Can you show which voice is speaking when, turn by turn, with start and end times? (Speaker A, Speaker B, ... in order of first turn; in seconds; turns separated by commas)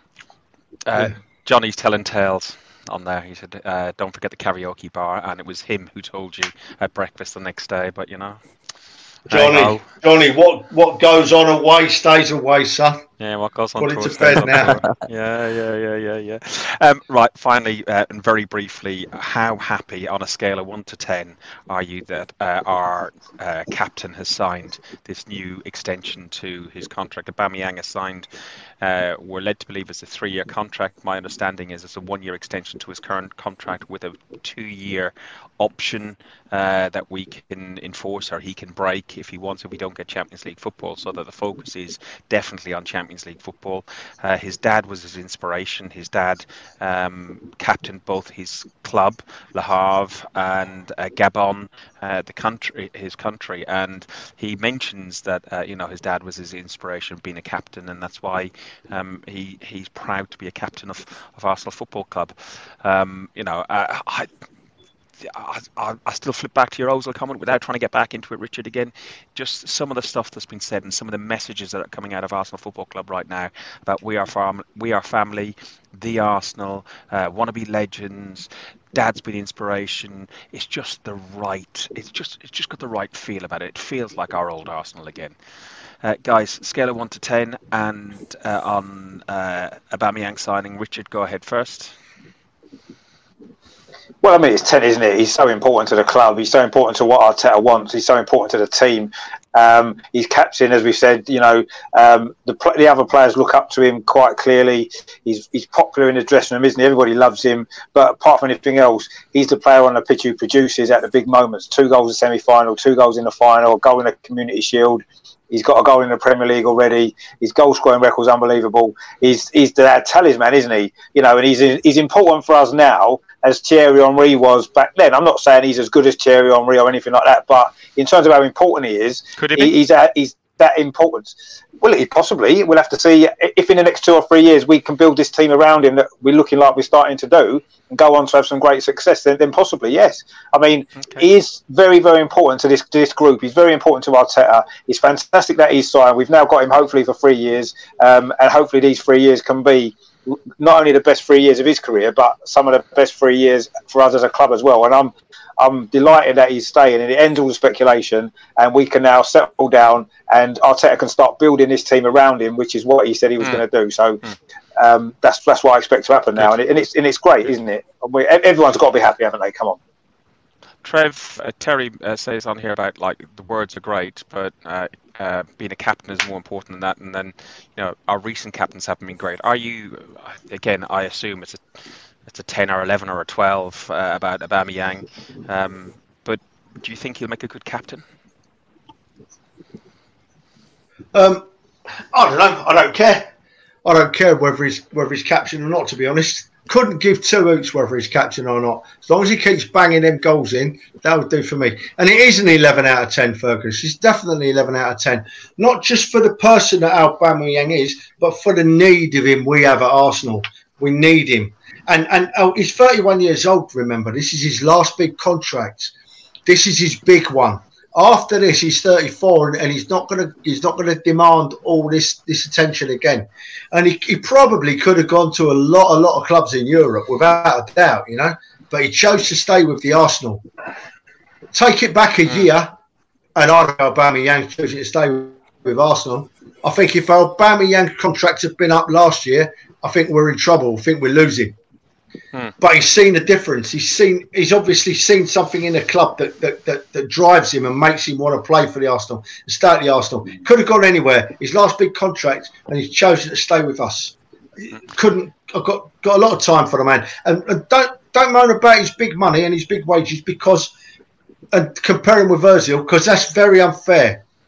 Speaker A: 0.8-8.4, Speaker A: 9.3-9.9, Speaker B: 9.3-13.0, Speaker A: 13.2-28.3, Speaker B: 13.8-14.8, Speaker A: 28.8-64.3, Speaker A: 65.2-85.3, Speaker A: 86.0-91.9, Speaker C: 94.2-164.2, Speaker A: 129.4-129.7, Speaker C: 164.8-169.8, Speaker A: 170.8-181.6, Speaker A: 182.2-188.0, Speaker B: 191.1-191.4, Speaker B: 192.1-193.3, Speaker B: 193.8-215.9, Speaker B: 216.4-230.4, Speaker B: 231.5-232.7, Speaker B: 233.3-241.6, Speaker B: 242.6-254.2, Speaker B: 254.8-260.7, Speaker B: 261.5-264.2